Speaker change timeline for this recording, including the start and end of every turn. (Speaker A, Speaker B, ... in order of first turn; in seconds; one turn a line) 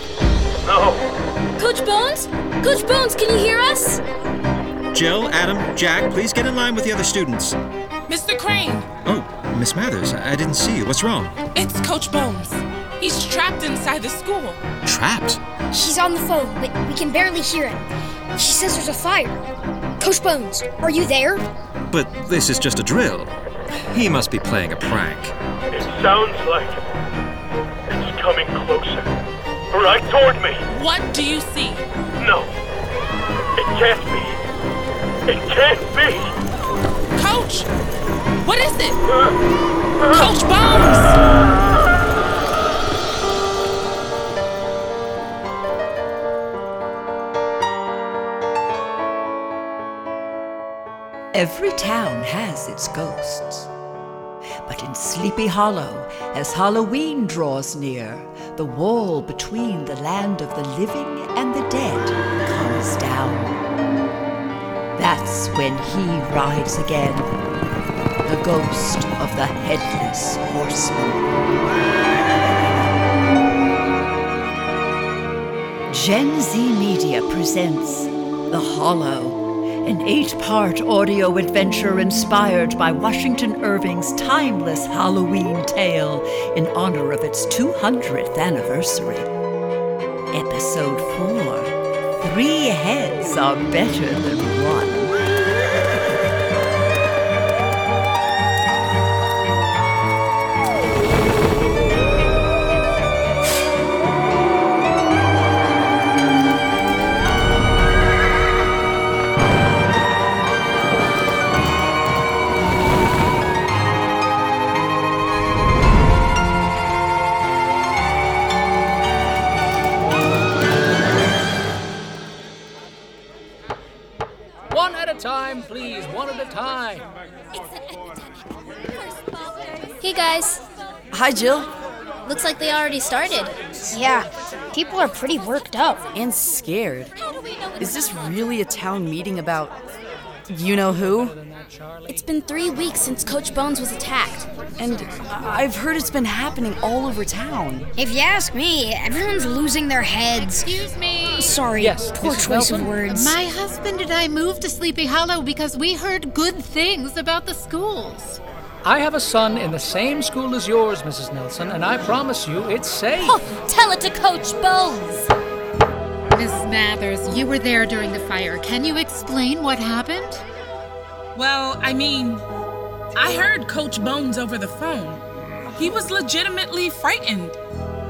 Speaker A: 0.7-1.0
Speaker B: 1.6-4.0
Speaker C: 4.9-7.6
Speaker D: 8.1-8.8
Speaker C: 9.0-11.3
Speaker D: 11.5-14.6
Speaker C: 14.8-15.4
Speaker E: 15.7-17.8
Speaker E: 18.3-19.4
Speaker E: 20.0-21.4
Speaker C: 21.9-23.3
Speaker C: 23.9-25.3
Speaker A: 25.7-26.7
Speaker A: 27.9-29.1
Speaker A: 29.7-30.6
Speaker D: 30.6-31.8
Speaker A: 32.2-32.5
Speaker A: 33.6-34.3
Speaker A: 35.3-36.2
Speaker D: 37.1-37.7
Speaker D: 38.4-39.0
Speaker D: 40.1-41.2
Speaker F: 51.3-53.7
Speaker F: 54.6-63.5
Speaker F: 65.0-67.3
Speaker F: 68.2-71.3
Speaker F: 75.9-89.3
Speaker F: 90.3-95.2
Speaker G: 124.7-127.0
Speaker B: 130.0-130.6
Speaker H: 131.1-131.7
Speaker B: 132.2-133.5
Speaker E: 133.8-136.0
Speaker H: 136.1-137.1
Speaker H: 137.8-139.8
Speaker H: 140.5-141.3
Speaker G: 141.5-141.8
Speaker B: 142.1-144.5
Speaker H: 144.8-147.9
Speaker E: 147.9-153.4
Speaker I: 150.4-151.6
Speaker G: 151.8-152.9
Speaker I: 153.0-158.4
Speaker G: 158.8-163.3
Speaker B: 163.7-164.4
Speaker I: 166.3-170.4
Speaker D: 171.3-172.4
Speaker D: 173.2-175.2
Speaker D: 175.7-177.6